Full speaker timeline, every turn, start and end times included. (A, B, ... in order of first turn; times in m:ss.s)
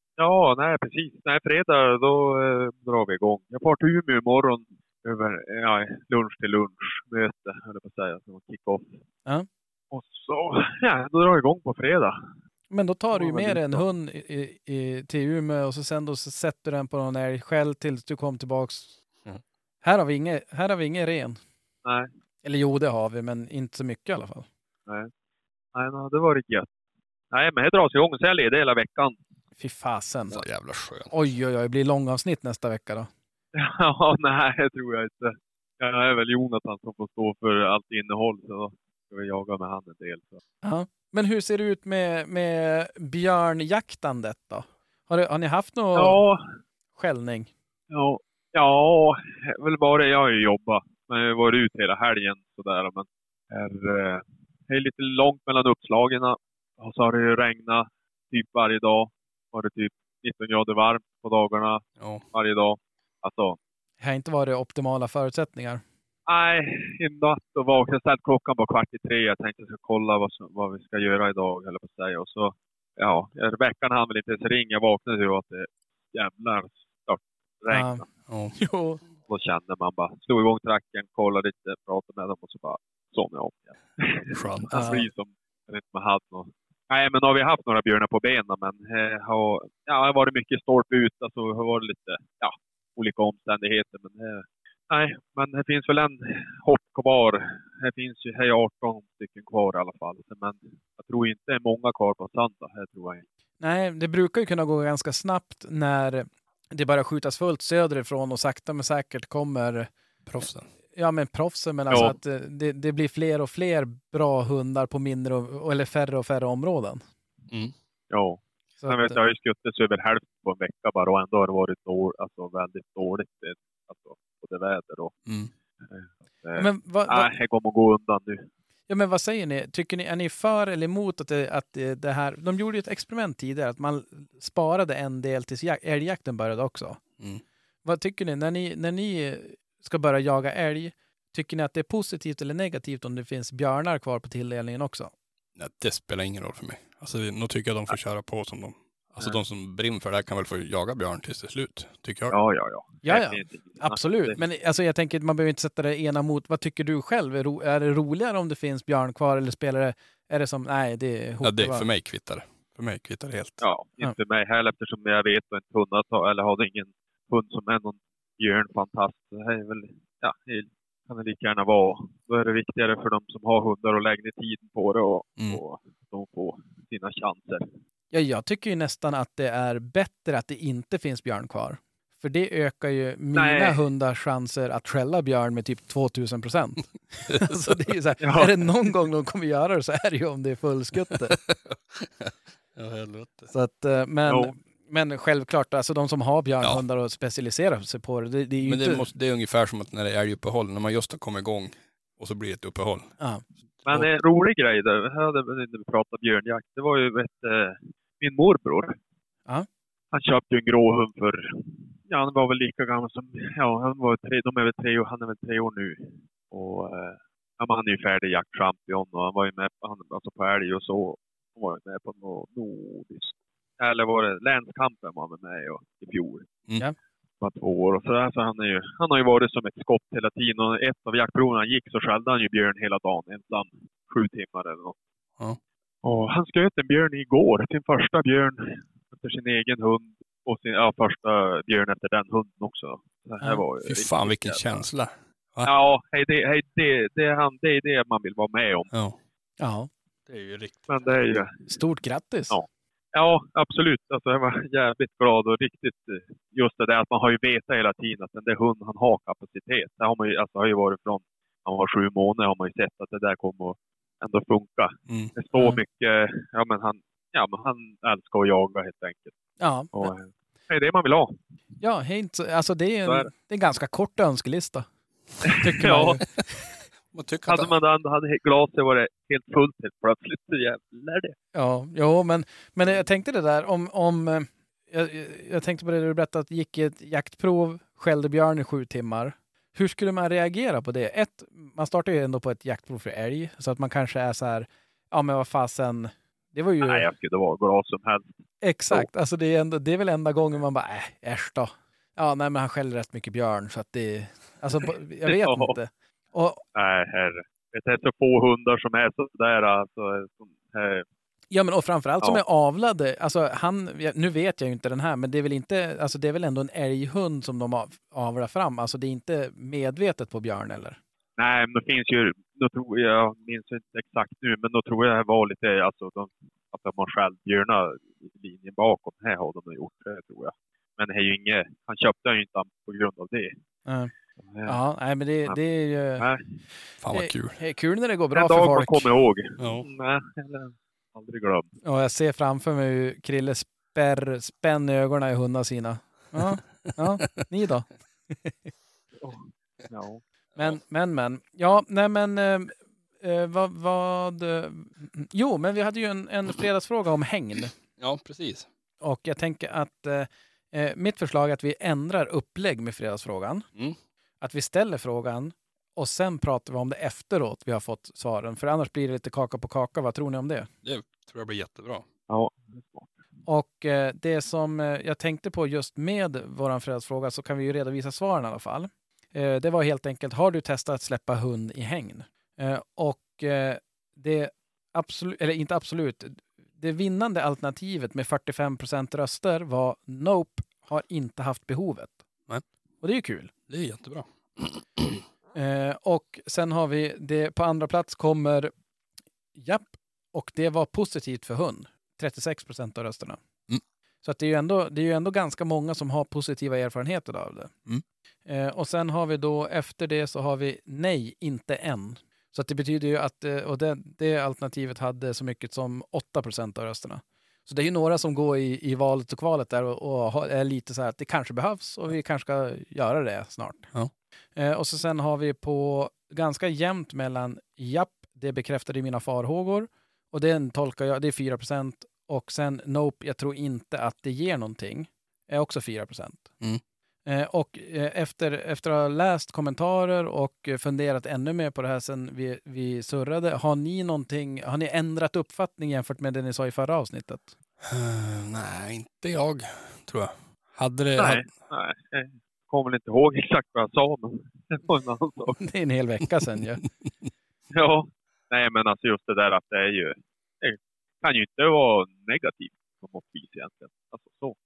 0:00.2-0:09.0 A
0:09.9-0:12.2 A
0:12.7-0:19.0 B
0:13.1-0:13.8 A
0:19.8-0:21.4 B
0:21.8-0:22.1 A
0:22.4-0:24.5 B
0:25.7-0:26.7 A
0:27.3-0:29.2 A
0:29.6-0:30.4 B
0:30.3-0:31.2 C
0:31.1-0:33.1 B
0:33.5-0:40.4 A
0:40.6-0:46.2 B
0:46.0-0:46.4 A
0:47.0-0:47.5 B
0:47.9-1:03.6 A
1:02.0-1:02.2 C
1:04.0-1:05.8 B
1:06.3-1:18.1 A
1:17.7-1:18.0 B
1:18.3-1:18.6 C
1:18.6-1:19.0 B
1:19.3-1:43.2 A
1:24.3-1:24.8 C
1:24.7-1:25.1 B
1:43.6-1:49.9 B
1:50.3-1:50.7 C
1:51.0-1:57.0 B
1:51.9-1:52.2 A
1:58.1-2:05.2 A
1:58.8-1:59.2 B
2:05.3-2:05.5 C
2:05.9-2:08.5 A
2:06.6-2:07.3 B
2:08.9-2:17.0 B
2:17.8-2:25.1 B
2:25.6-2:32.4 C
2:32.3-2:34.4 A
2:33.0-2:41.8 B
2:41.4-2:43.6 C
2:43.6-2:57.7 A
2:58.1-3:11.4 B
3:03.4-3:03.8 A
3:07.3-3:07.8 C
3:08.2-3:08.6 A
3:11.1-3:13.5 C
3:13.5-3:19.1 B
3:14.3-3:14.5 A
3:18.6-3:23.1 C
3:23.8-3:24.1 C
3:23.8-3:29.0 A
3:30.1-3:46.5 A
3:47.4-3:55.0 A
3:56.0-4:04.8 A
4:03.8-4:05.7 C
4:05.6-4:08.9 A
4:08.9-4:09.2 C
4:09.6-4:09.9 B
4:10.3-4:11.1 C
4:10.9-4:11.6 A
4:11.7-4:12.6 B
4:12.5-4:29.3 A
4:25.1-4:25.3 C
4:25.6-4:25.8 B
4:29.6-4:30.1 B
4:29.9-4:31.4 A
4:31.8-4:34.9 B
4:33.1-4:33.3 A
4:35.4-4:36.2 A
4:35.6-4:36.2 B
4:37.1-4:37.7 C
4:37.5-4:41.4 A
4:41.5-4:57.1 B
4:56.8-4:58.4 A
4:58.6-5:06.6 B
5:05.3-5:05.8 A
5:06.8-5:11.0 A
5:11.5-5:21.0 B
5:21.4-5:33.5 A
5:33.9-5:34.1 B
5:34.4-5:34.8 A
5:34.6-5:36.2 B
5:36.2-5:36.6 A
5:37.0-5:37.6 C
5:37.1-5:39.1 B
5:38.3-5:41.7 A
5:39.6-5:39.9 C
5:41.8-5:48.7 B
5:49.2-5:50.2 A
5:50.6-5:57.7 B
5:58.0-5:58.7 C
5:59.0-6:03.7 B
6:04.4-6:10.7 B
6:10.8-6:12.1 C
6:12.3-6:13.1 A
6:13.5-6:32.2 B
6:33.0-6:33.5 B
6:33.7-6:35.2 C
6:35.5-6:38.7 B
6:39.6-6:43.4 B
6:44.2-6:47.7 B
6:48.5-7:03.9 B
7:04.6-7:16.5 B
7:17.3-7:27.5 B
7:27.8-7:31.5 C
7:31.2-7:35.6 A
7:35.6-7:36.8 B
7:36.8-7:37.1 C
7:37.7-7:44.6 A